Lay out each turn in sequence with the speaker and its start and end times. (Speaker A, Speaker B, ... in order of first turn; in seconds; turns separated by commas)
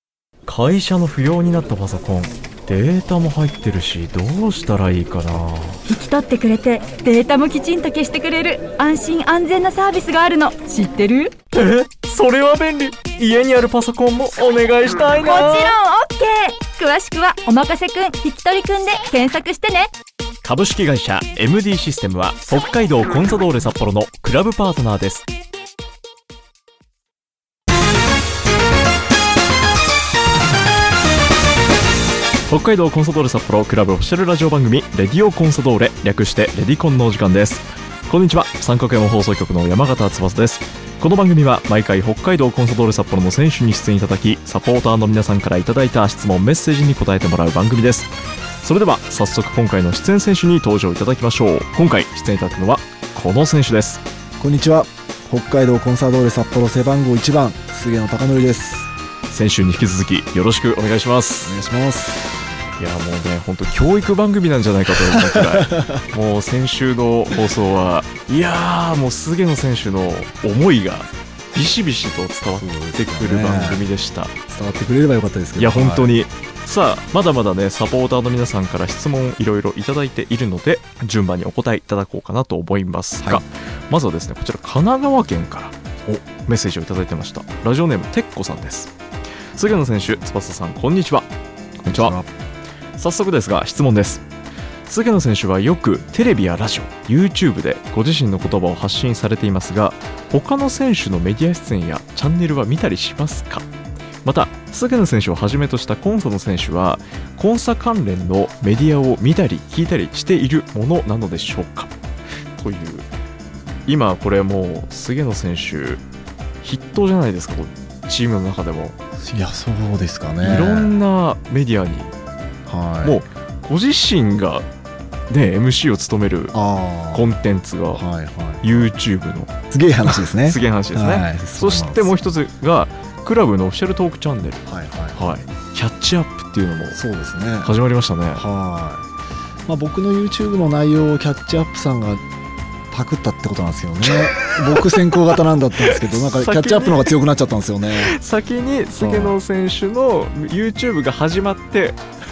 Speaker A: 0.5-5.8, Speaker B: 5.9-11.3, Speaker A: 11.5-15.8, Speaker B: 15.1-19.9, Speaker A: 20.4-25.3, Speaker A: 32.5-48.1, Speaker A: 48.6-54.0, Speaker C: 54.4-58.9, Speaker A: 59.3-61.6, Speaker C: 61.5-62.3, Speaker A: 62.8-74.3, Speaker C: 65.1-66.0, Speaker C: 72.5-73.8, Speaker C: 74.5-76.2, Speaker A: 75.6-88.9, Speaker A: 89.5-91.3, Speaker A: 91.8-92.2, Speaker C: 91.9-92.3, Speaker A: 93.0-94.2, Speaker A: 94.9-103.7, Speaker A: 104.2-111.9, Speaker A: 112.6-113.1, Speaker A: 113.9-116.0, Speaker A: 116.6-119.0, Speaker C: 119.2-121.0, Speaker A: 120.4-122.1, Speaker C: 122.7-123.3, Speaker A: 123.0-124.7, Speaker A: 125.3-126.5, Speaker C: 126.5-127.3, Speaker A: 127.1-128.0, Speaker C: 127.9-128.9, Speaker A: 128.6-129.5, Speaker C: 129.7-132.2, Speaker A: 130.0-134.6, Speaker C: 134.7-135.2, Speaker A: 135.1-137.0, Speaker C: 136.9-137.7, Speaker A: 137.6-138.4, Speaker C: 138.3-139.1, Speaker C: 139.7-142.2, Speaker C: 142.9-148.2, Speaker A: 144.1-145.1, Speaker A: 145.8-147.1, Speaker A: 147.9-152.0, Speaker C: 149.0-149.4